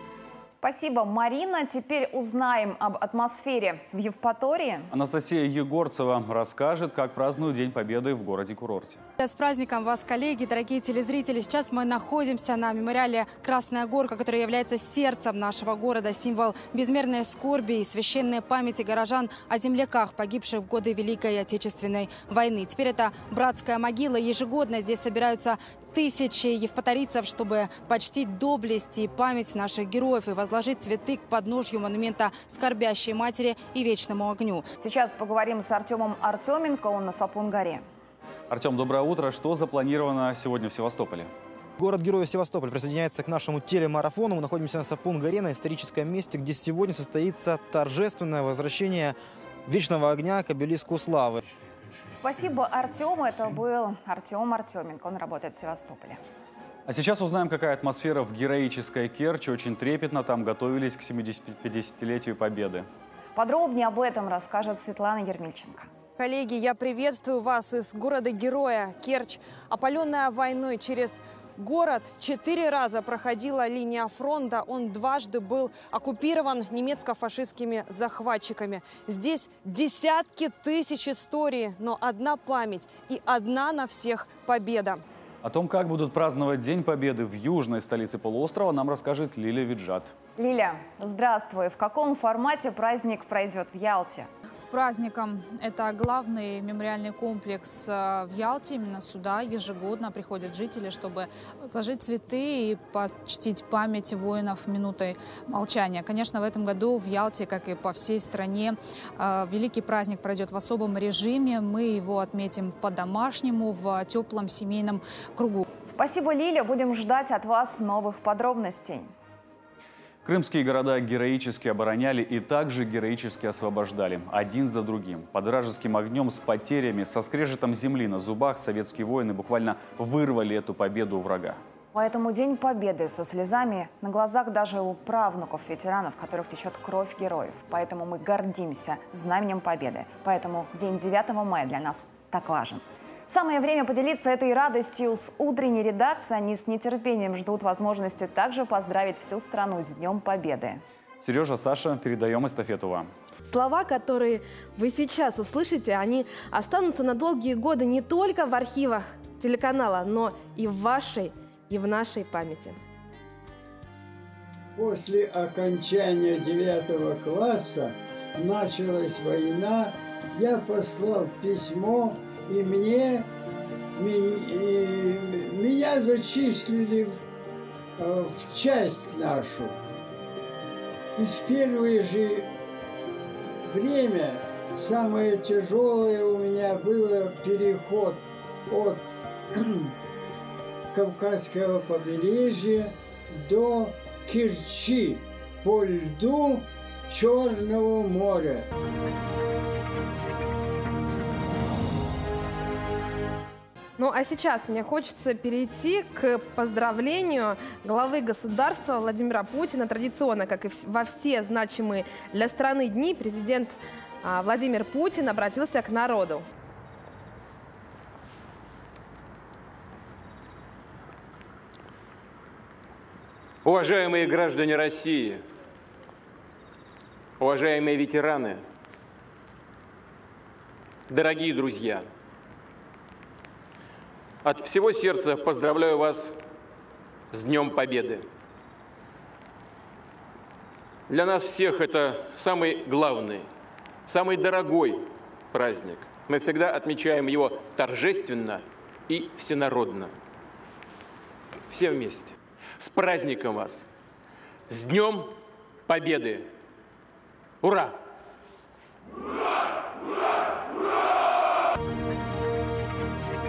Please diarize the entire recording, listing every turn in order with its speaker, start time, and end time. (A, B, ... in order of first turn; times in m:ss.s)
0:00.5-0:04.9 A
0:04.9-0:09.0 B
0:09.2-0:34.7 C
0:34.8-0:37.8 A
0:38.5-0:41.3 B
0:41.8-0:51.4 D
0:52.1-0:56.2 A
0:56.8-1:02.9 B
1:03.3-1:05.9 A
1:06.2-1:25.0 E
1:25.4-1:30.1 B
1:30.4-1:34.3 A
1:34.5-1:55.6 F
1:55.8-1:59.1 A
2:00.2-2:11.6 B
2:11.9-2:30.8 A
2:31.2-2:33.1 B
2:33.5-2:42.8 G
2:44.7-2:53.3 H
2:53.9-2:57.2 H
2:58.0-2:59.8 H
3:01.2-3:02.4 H
3:03.6-3:09.9 H
3:10.9-3:18.7 H
3:24.0-3:36.4 G
3:43.6-3:45.4 I
3:47.4-3:48.6 I
3:51.1-3:52.1 I
3:54.4-3:56.4 I
3:57.3-3:58.3 I
4:01.1-4:03.5 I
4:04.1-4:10.2 I
4:11.7-4:13.8 I
4:14.7-4:16.5 I
4:17.6-4:18.0 I